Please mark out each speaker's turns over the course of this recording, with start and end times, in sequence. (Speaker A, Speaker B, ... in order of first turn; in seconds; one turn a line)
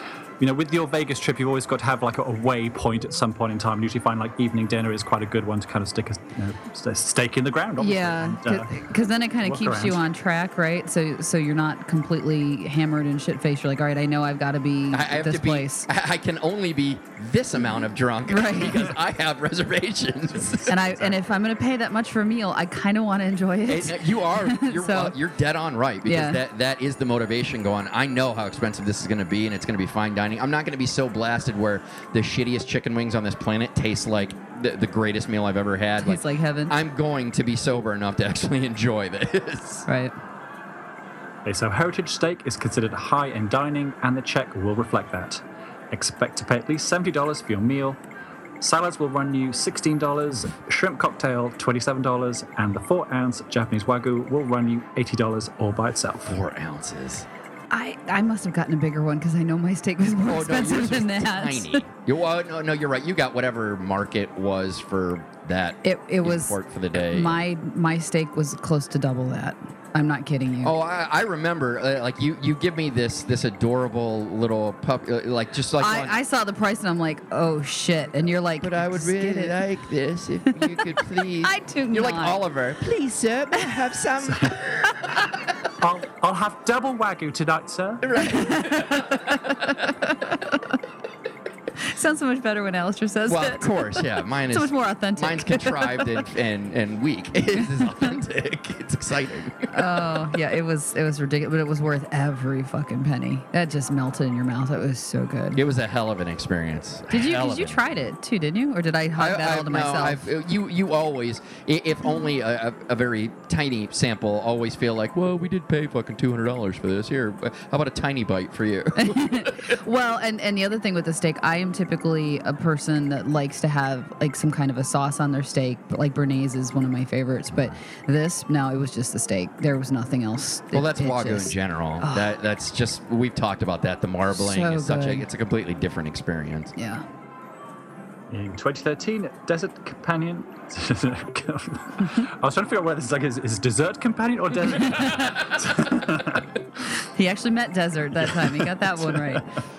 Speaker A: 0.4-8.9
Speaker B: 7.8-15.9
Speaker A: 9.4-10.1
Speaker C: 14.9-20.9
Speaker B: 18.3-18.9
Speaker B: 20.7-25.2
Speaker C: 23.7-39.9
Speaker B: 26.1-26.4
Speaker B: 36.0-36.8
Speaker B: 39.9-40.1
Speaker A: 41.5-45.4
Speaker A: 45.9-48.0
Speaker A: 48.6-56.4
Speaker C: 56.2-57.3
Speaker B: 57.7-61.9
Speaker C: 60.1-67.4
Speaker B: 65.8-70.8
Speaker C: 70.6-76.1
Speaker B: 75.8-79.6
Speaker C: 78.6-85.2
Speaker B: 81.4-82.4
Speaker A: 84.2-84.5
Speaker A: 85.8-88.1
Speaker C: 88.0-89.8
Speaker B: 88.2-90.6
Speaker B: 91.8-96.2
Speaker C: 93.3-100.2
Speaker B: 99.7-105.6
Speaker C: 105.5-107.8
Speaker B: 107.1-110.2
Speaker C: 109.2-119.8
Speaker B: 119.0-132.3
Speaker C: 130.7-136.7
Speaker B: 134.3-135.3
Speaker B: 136.8-137.1
Speaker A: 138.3-146.5
Speaker B: 144.9-145.4
Speaker B: 147.1-149.4
Speaker A: 148.2-149.4